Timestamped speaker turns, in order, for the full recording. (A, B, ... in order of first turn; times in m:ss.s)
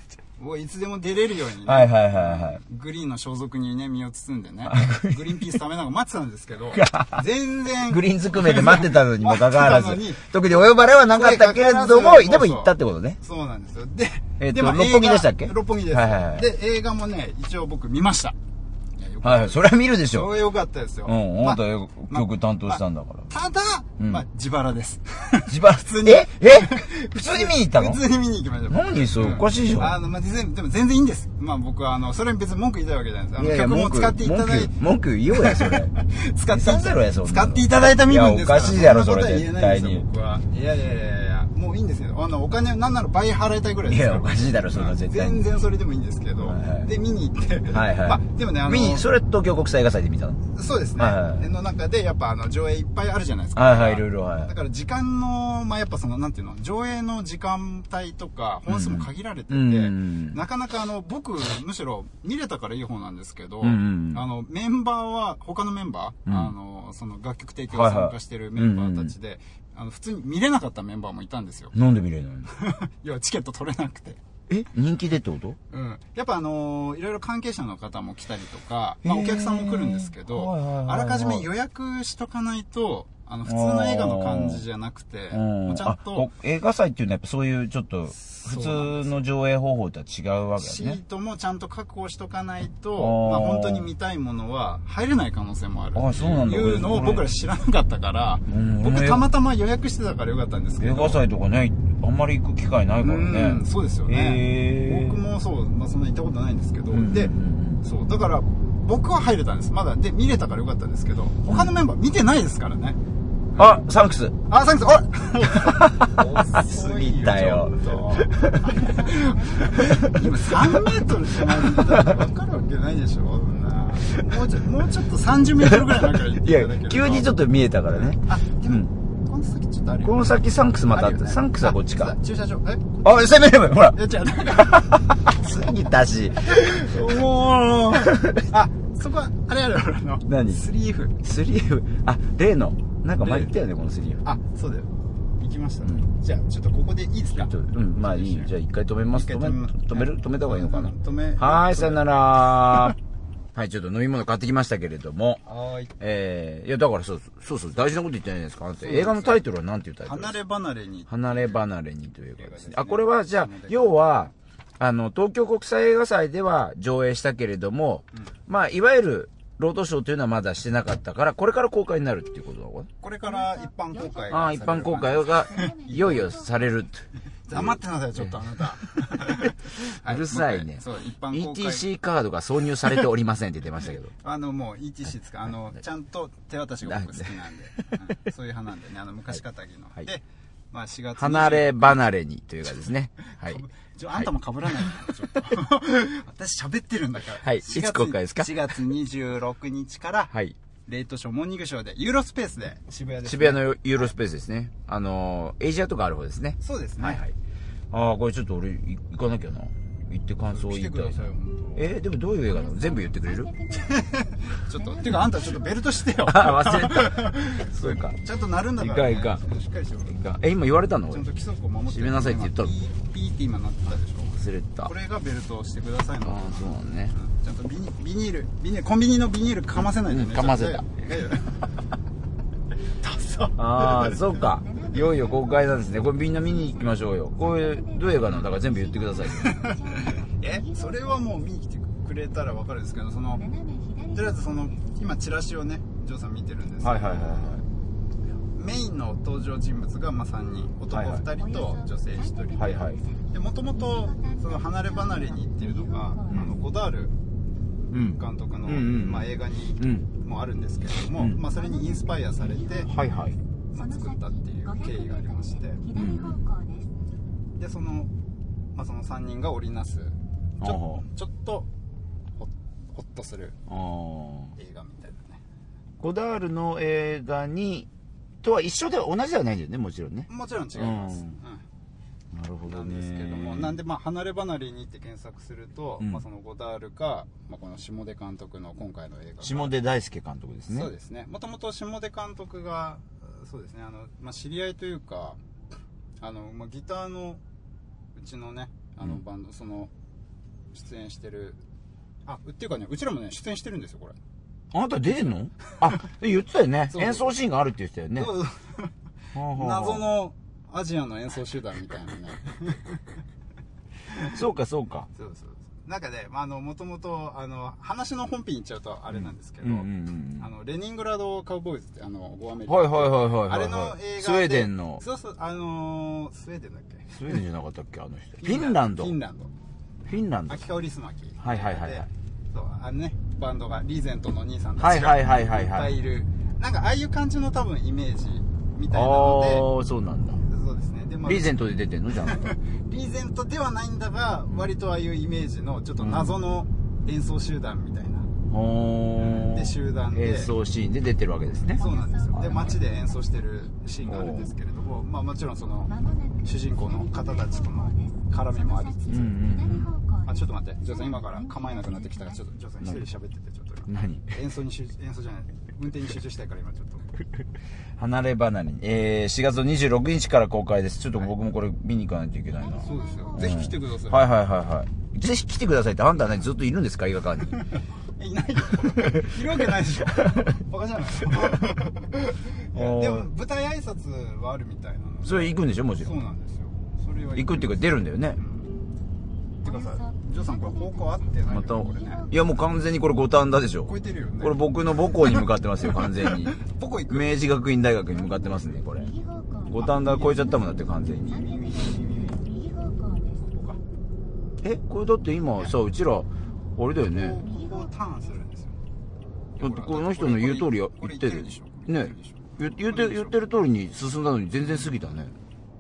0:00.4-0:18.4 A
0:01.6-0:02.6 B
0:04.7-0:05.4 B
0:06.7-0:07.2 B
0:07.9-0:13.2 B
0:14.4-0:16.5 B
0:19.0-0:34.8 A
0:19.2-0:20.4 B
0:21.0-0:23.3 B
0:24.0-0:24.2 B
0:25.5-0:28.0 B
0:28.7-0:30.0 B
0:33.4-0:35.9 B
0:35.3-0:49.1 A
0:36.5-0:40.0 B
0:43.9-0:45.5 B
0:46.4-0:46.9 B
0:47.7-0:51.4 B
0:50.5-1:11.7 A
0:53.6-0:54.5 B
0:58.7-1:00.4 B
1:03.6-1:04.2 B
1:06.3-1:06.5 B
1:07.7-1:09.1 B
1:11.7-1:12.5 B
1:12.4-1:14.2 A
1:14.5-1:15.6 B
1:15.7-1:26.3 A
1:19.0-1:21.5 B
1:23.4-1:24.6 B
1:25.3-1:31.0 B
1:28.2-1:29.2 A
1:30.6-1:41.2 A
1:33.0-1:33.9 B
1:35.9-1:37.3 B
1:38.5-1:39.3 B
1:40.8-1:45.2 B
1:43.0-1:53.0 A
1:46.9-1:47.8 B
1:51.5-1:51.7 B
1:53.6-1:54.4 B
1:54.5-2:13.0 A
1:55.6-1:58.8 B
1:58.5-2:00.0 C
1:59.7-2:00.9 B
2:01.5-2:02.1 B
2:05.6-2:08.9 B
2:10.0-2:12.2 B
2:13.0-2:18.5 B
2:13.8-2:15.1 A
2:16.4-2:21.2 A
2:20.3-2:20.6 B
2:21.2-2:24.2 B
2:23.2-2:23.5 A
2:24.2-2:28.5 A
2:25.8-2:26.1 B
2:27.4-2:33.0 B
2:29.1-2:32.0 A
2:33.5-2:35.4 B
2:35.4-2:35.9 A
2:36.0-2:40.4 B
2:38.8-2:39.4 A
2:40.0-2:41.6 A
2:41.1-2:52.9 B
2:42.4-2:44.0 A
2:53.0-2:56.3 A
2:53.2-2:56.8 C
2:54.3-2:58.3 B
2:57.4-3:01.9 A
2:59.1-3:04.1 B
3:04.2-3:12.0 A
3:06.8-3:07.3 B
3:11.2-3:13.6 B
3:13.2-3:20.3 A
3:17.4-3:18.6 B
3:20.3-3:20.6 B
3:20.8-3:23.7 A
3:23.2-3:27.3 B
3:26.6-3:27.2 A
3:27.9-3:33.5 B
3:30.5-3:32.0 A
3:32.4-3:36.3 C
3:33.7-3:40.3 A
3:36.2-3:38.2 B
3:38.8-3:39.4 B
3:40.2-3:41.3 B
3:41.1-3:51.7 A
3:41.8-3:42.7 B
3:44.4-3:44.9 B
3:46.2-3:47.1 B
3:49.9-3:50.8 B
3:53.0-3:54.2 A
3:53.6-3:59.5 B
3:54.4-4:01.4 C
3:59.3-4:03.4 A
4:03.3-4:04.8 C
4:04.1-4:07.6 A
4:06.8-4:07.6 B
4:08.6-4:17.1 A
4:10.9-4:11.2 B
4:11.3-4:16.6 C
4:12.6-4:13.0 B
4:17.9-4:20.1 B
4:18.0-4:22.9 A
4:21.4-4:23.1 C
4:22.8-4:23.4 B
4:23.7-4:25.8 A
4:23.7-4:27.0 C
4:25.9-4:26.4 B
4:27.6-4:28.1 A
4:28.7-4:31.7 A
4:30.6-4:31.0 B
4:32.4-4:33.6 A
4:33.7-4:34.5 B
4:34.6-4:35.4 A
4:36.0-4:37.9 B
4:38.4-4:41.4 B
4:40.3-4:41.6 A
4:42.3-4:43.8 B
4:42.6-4:49.7 A
4:49.4-4:50.9 B
4:50.7-4:55.4 A
4:56.2-4:57.4 A
4:58.1-4:59.9 A
5:00.7-5:01.6 A
5:02.3-5:04.2 A
5:04.7-5:08.3 B
5:06.9-5:07.3 A
5:08.1-5:08.9 A
5:09.3-5:10.1 B
5:09.5-5:13.0 A
5:14.2-5:15.1 B
5:15.1-5:27.1 A
5:19.1-5:20.5 B
5:22.6-5:25.0 B
5:27.1-5:29.2 B
5:28.4-5:29.5 A
5:30.0-5:30.7 B
5:30.5-5:39.7 A
5:31.4-5:32.1 B
5:34.8-5:35.9 B
5:38.9-5:40.4 B
5:40.4-5:41.6 A
5:41.2-5:42.5 B
5:42.1-5:48.3 A
5:46.0-5:46.4 B
5:48.5-5:51.8 B
5:49.2-5:50.5 A
5:51.7-5:53.4 C
5:51.8-5:55.9 A
5:52.3-5:52.7 B
5:54.0-5:54.5 B
5:55.9-6:02.4 C
5:56.4-5:59.3 A
5:59.1-5:59.9 B
6:00.2-6:07.1 A
6:03.9-6:04.3 B
6:08.0-6:17.6 B
6:12.5-6:13.7 C
6:12.8-6:14.3 A
6:17.5-6:28.7 A
6:18.8-6:19.4 B
6:20.2-6:20.5 B
6:21.3-6:21.6 B
6:22.7-6:23.3 B
6:25.2-6:26.2 B
6:27.4-6:28.4 B
6:29.6-6:32.8 C
6:29.6-6:32.2 A
6:31.5-6:36.6 B
6:33.8-6:34.6 A
6:36.0-6:37.4 A
6:37.1-6:39.1 B
6:38.1-6:43.6 C
6:39.7-6:41.4 B
6:39.8-6:40.6 A
6:41.2-6:42.4 A
6:43.5-6:43.8 A
6:44.6-6:47.4 B
6:47.1-6:48.4 C
6:47.3-6:48.8 A
6:49.6-6:53.4 A
6:49.6-6:55.3 B
6:54.6-6:54.9 A